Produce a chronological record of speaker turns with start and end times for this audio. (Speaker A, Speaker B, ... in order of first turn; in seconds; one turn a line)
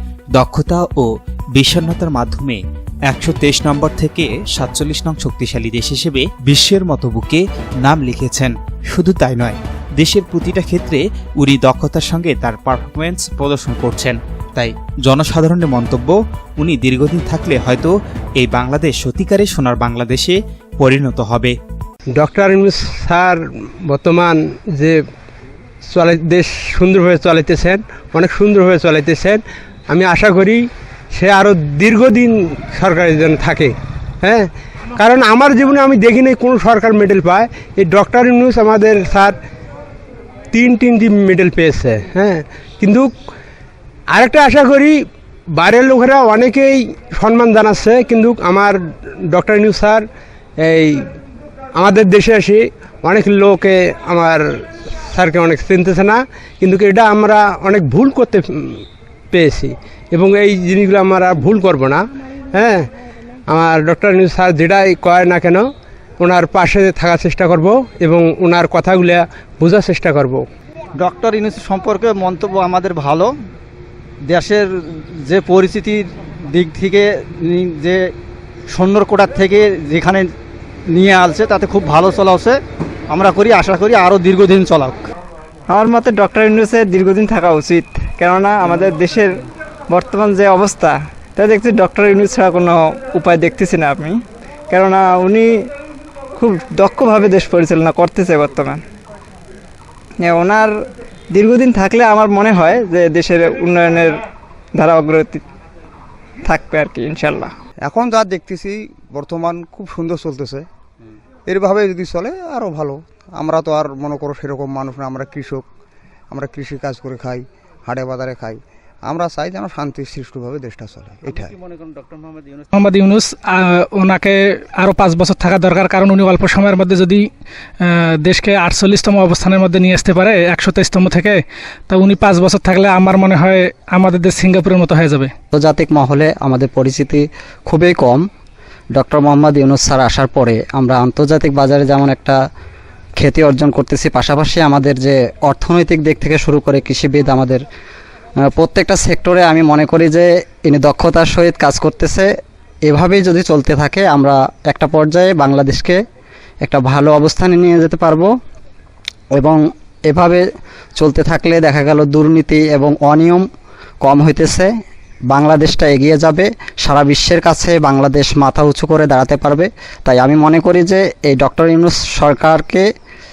Speaker A: 0.3-21.5
Speaker B: 22.1-25.0
Speaker B: 25.9-34.5
Speaker B: 35.0-39.4
Speaker B: 40.5-43.1
Speaker B: 44.1-45.0
Speaker B: 45.5-50.0
Speaker B: 50.6-51.1
Speaker B: 51.8-54.5
Speaker B: 55.1-62.0
Speaker B: 62.5-62.9
Speaker B: 63.5-65.7
Speaker B: 66.2-70.4
Speaker C: 71.0-73.3
Speaker C: 74.2-78.1
Speaker C: 78.7-80.3
Speaker C: 80.9-82.6
Speaker C: 83.1-85.1
Speaker D: 85.7-89.3
Speaker D: 89.9-94.2
Speaker D: 94.7-95.5
Speaker D: 96.4-98.8
Speaker D: 100.2-100.7
Speaker D: 101.3-104.1
Speaker D: 104.8-105.4
Speaker D: 106.5-107.5
Speaker E: 107.8-110.7
Speaker E: 111.5-115.6
Speaker E: 116.3-121.5
Speaker F: 122.7-127.3
Speaker F: 127.8-135.3
Speaker G: 135.5-138.2
Speaker G: 138.9-142.4
Speaker G: 143.2-147.6
Speaker G: 148.4-152.3
Speaker G: 152.9-156.0
Speaker G: 156.6-158.3
Speaker G: 159.3-160.4
Speaker G: 161.0-163.4
Speaker G: 164.0-164.7
Speaker G: 165.3-172.9